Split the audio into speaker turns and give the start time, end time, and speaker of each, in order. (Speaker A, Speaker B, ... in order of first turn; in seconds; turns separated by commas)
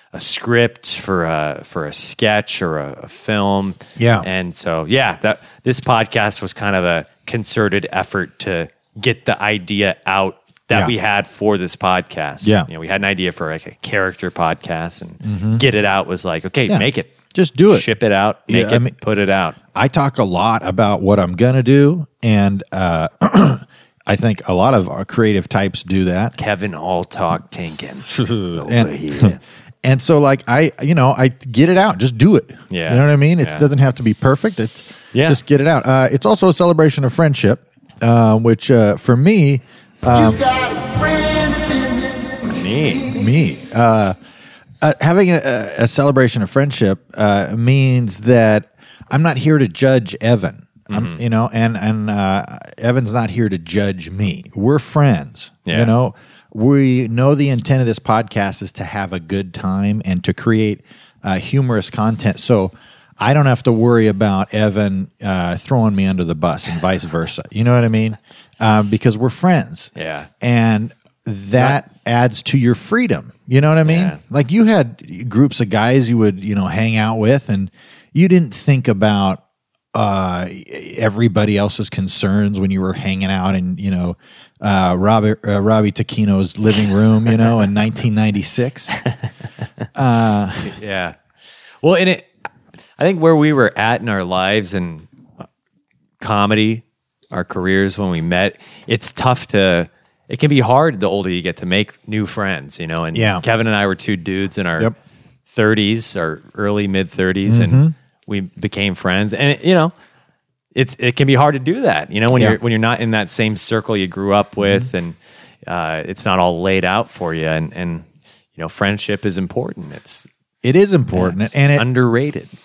Speaker A: 0.1-17.1, Speaker B: 4.0-4.2, Speaker B: 12.4-12.7, Speaker B: 15.2-15.6, Speaker B: 16.7-17.9, Speaker A: 17.7-19.6, Speaker B: 18.5-18.9, Speaker B: 19.7-26.3, Speaker A: 26.4-29.4, Speaker B: 28.1-40.5, Speaker A: 32.7-33.6, Speaker A: 35.1-35.4, Speaker A: 42.5-43.1, Speaker B: 43.1-44.1, Speaker B: 44.8-79.4, Speaker A: 50.9-51.2, Speaker A: 55.6-55.9, Speaker A: 70.0-70.3, Speaker A: 73.8-74.2, Speaker B: 79.9-89.0, Speaker B: 89.9-90.7, Speaker A: 90.7-91.2, Speaker A: 91.8-92.3, Speaker A: 93.0-95.1, Speaker A: 96.2-104.9, Speaker B: 103.1-103.4, Speaker A: 105.5-109.9, Speaker B: 107.5-107.9, Speaker A: 110.7-120.3, Speaker B: 112.3-112.6, Speaker B: 114.6-114.9, Speaker B: 120.6-121.9, Speaker A: 121.1-122.5